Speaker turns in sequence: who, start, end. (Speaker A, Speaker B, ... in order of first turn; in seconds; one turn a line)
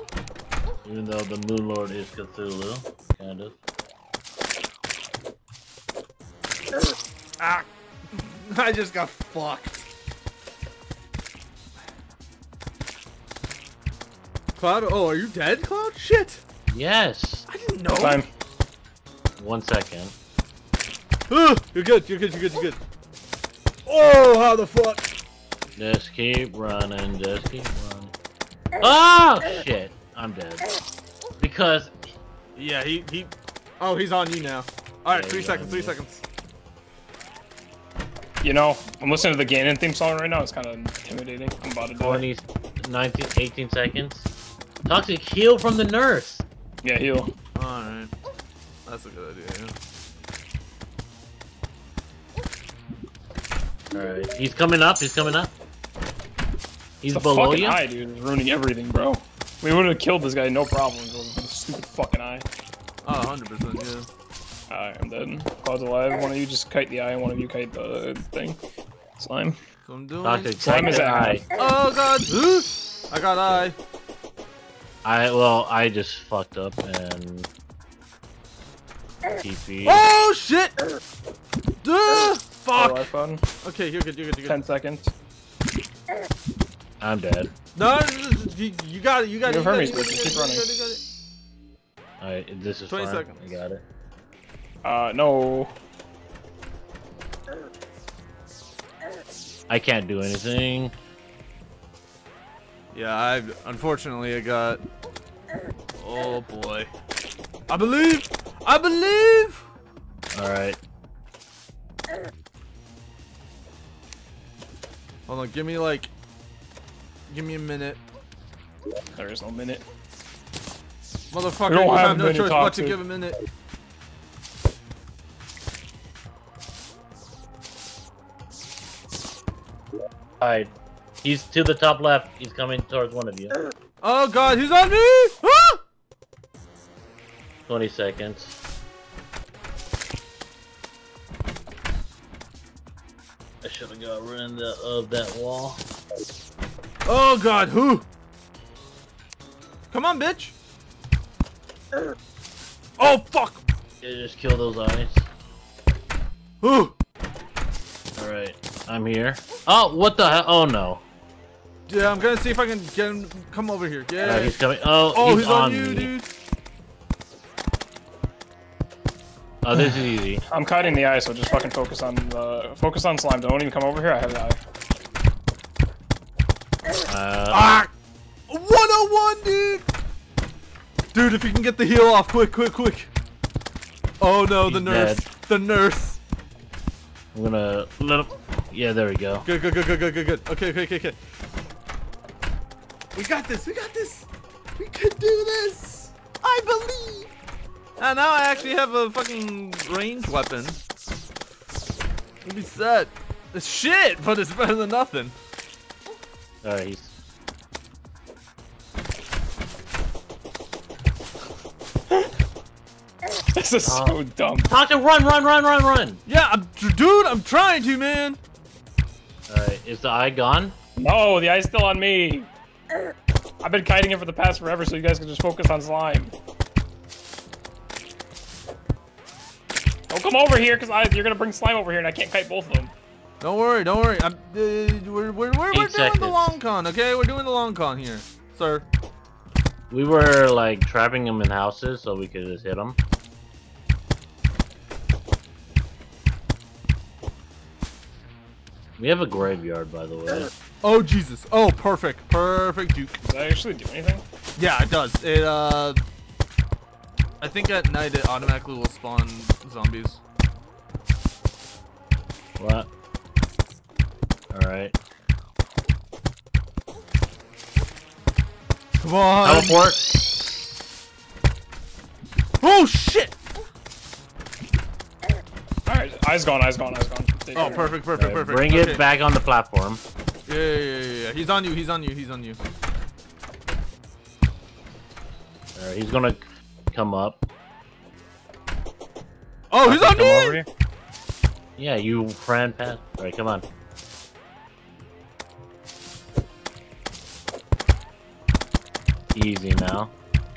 Speaker A: 0.8-3.6
Speaker B: 7.4-9.9
Speaker B: 14.6-16.4
Speaker A: 16.7-17.5
Speaker B: 17.5-18.2
Speaker C: 18.0-18.3
Speaker A: 19.4-20.1
Speaker B: 21.3-22.8
Speaker B: 23.9-25.1
Speaker A: 25.8-28.1
Speaker A: 28.8-30.7
Speaker A: 31.4-31.9
Speaker B: 32.6-36.2
Speaker A: 35.1-36.0
Speaker C: 38.4-42.2
Speaker A: 42.0-44.3
Speaker A: 44.9-46.5
Speaker C: 46.8-47.3
Speaker B: 47.5-48.1
Speaker B: 48.9-49.7
Speaker A: 53.9-55.5
Speaker A: 57.0-57.8
Speaker C: 57.1-62.5
Speaker B: 63.0-64.1
Speaker C: 64.7-68.6
Speaker C: 69.2-69.6
Speaker B: 69.9-73.8
Speaker A: 70.2-71.5
Speaker C: 70.6-71.5
Speaker A: 75.0-77.5
Speaker A: 79.3-80.0
Speaker B: 79.8-80.8
Speaker B: 81.8-83.1
Speaker C: 82.8-83.5
Speaker B: 83.6-84.6
Speaker C: 84.5-85.1
Speaker A: 87.0-87.5
Speaker B: 87.8-91.0
Speaker C: 89.5-90.7
Speaker A: 92.2-93.8
Speaker B: 92.9-93.6
Speaker C: 94.8-95.7
Speaker A: 99.7-101.0
Speaker B: 102.9-104.8
Speaker B: 106.0-106.9
Speaker B: 107.7-109.6
Speaker A: 110.3-110.8
Speaker B: 115.3-116.1
Speaker B: 117.3-118.0
Speaker C: 119.2-119.8
Speaker B: 121.3-123.4
Speaker C: 121.7-123.0
Speaker A: 130.4-130.7
Speaker A: 131.2-133.6
Speaker B: 134.0-135.8
Speaker A: 137.7-138.6
Speaker A: 143.6-145.8
Speaker B: 147.1-148.1
Speaker B: 149.9-150.5
Speaker B: 153.0-153.6
Speaker A: 154.0-155.3
Speaker B: 156.6-156.9
Speaker A: 158.2-161.0
Speaker B: 161.9-164.6
Speaker A: 164.2-166.1
Speaker B: 165.1-166.3
Speaker A: 169.6-170.4
Speaker C: 170.5-174.6
Speaker A: 177.1-177.7
Speaker B: 177.5-177.9
Speaker B: 178.5-179.9
Speaker B: 181.1-183.1
Speaker B: 184.2-186.2
Speaker A: 184.7-185.2
Speaker A: 187.3-189.5
Speaker B: 189.4-191.2
Speaker B: 193.1-194.3
Speaker B: 194.8-197.3
Speaker B: 198.0-200.8
Speaker B: 202.4-205.3
Speaker A: 206.6-207.2
Speaker C: 213.5-214.7
Speaker A: 213.8-216.2
Speaker B: 216.3-218.4
Speaker A: 219.5-220.8
Speaker C: 221.0-222.5
Speaker C: 223.6-226.3
Speaker C: 230.1-232.9
Speaker B: 233.4-238.8
Speaker A: 235.7-236.4
Speaker A: 239.9-243.0
Speaker A: 249.0-250.5
Speaker B: 250.8-253.2
Speaker C: 253.2-254.2
Speaker B: 254.6-256.0
Speaker B: 257.4-260.2
Speaker A: 262.6-262.9
Speaker A: 264.5-265.0
Speaker B: 269.0-269.8
Speaker A: 269.4-270.1
Speaker B: 272.6-273.3
Speaker C: 275.9-278.0
Speaker B: 277.6-279.0
Speaker A: 278.1-280.0
Speaker B: 280.5-282.6
Speaker A: 285.8-287.4
Speaker B: 289.7-290.6
Speaker A: 289.9-290.7
Speaker A: 291.8-293.6
Speaker A: 299.3-300.1